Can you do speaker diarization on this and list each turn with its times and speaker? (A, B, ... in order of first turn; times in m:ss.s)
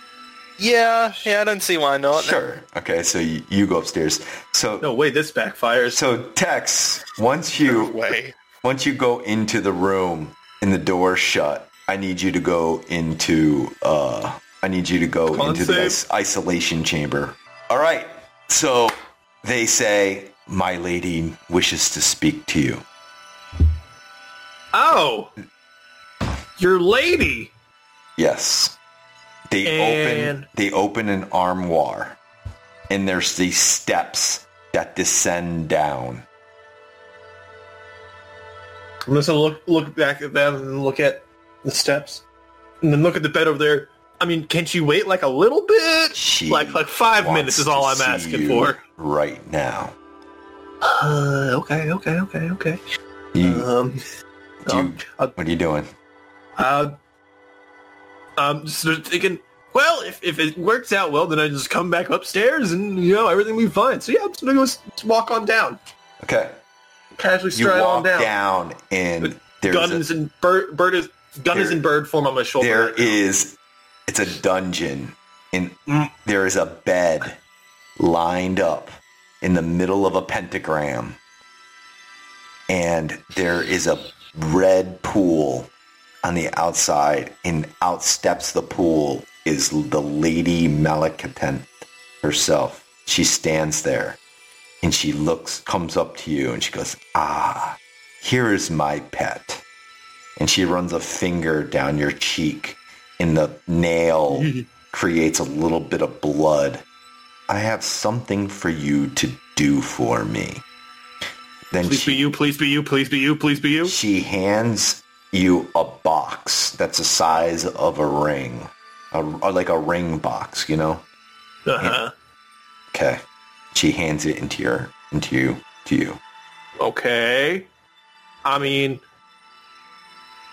0:00.6-0:02.4 A
0:02.1-0:04.9 B
0:04.8-0:06.0 C
0:05.9-0:08.0 B
0:07.6-0:08.4 A
0:08.6-0:22.8 B
0:15.3-0:16.0 C
0:24.7-0:25.3 C
0:26.6-0:27.5 C
0:28.2-0:28.8 B
0:29.5-0:32.2 B
0:29.6-0:30.5 C
0:32.9-0:36.2 B
0:39.1-0:42.2 C
0:42.8-0:48.8 C
0:46.2-0:49.9 B
0:50.8-0:52.8 C
0:53.3-0:53.7 B
0:53.4-0:54.0 C
0:54.7-0:55.9 B
0:54.7-0:55.3 C
0:56.6-0:57.0 C
0:58.4-1:05.8 C
1:06.2-1:06.6 B
1:07.2-1:08.3 C
1:07.5-1:10.0 B
1:09.2-1:13.2 C
1:11.5-1:11.8 B
1:12.6-1:13.6 B
1:14.1-1:17.4 B
1:18.0-1:21.2 B
1:22.7-1:25.7 B
1:26.2-1:34.2 B
1:34.8-1:39.6 B
1:40.4-1:46.8 B
1:44.3-1:44.6 C
1:47.5-1:50.6 B
1:51.7-1:52.3 B
1:51.8-1:54.0 C
1:53.9-2:01.0 B
2:01.7-2:02.1 C
2:02.9-2:03.2 B
2:03.7-2:06.2 B
2:06.8-2:07.7 C
2:08.4-2:09.0 C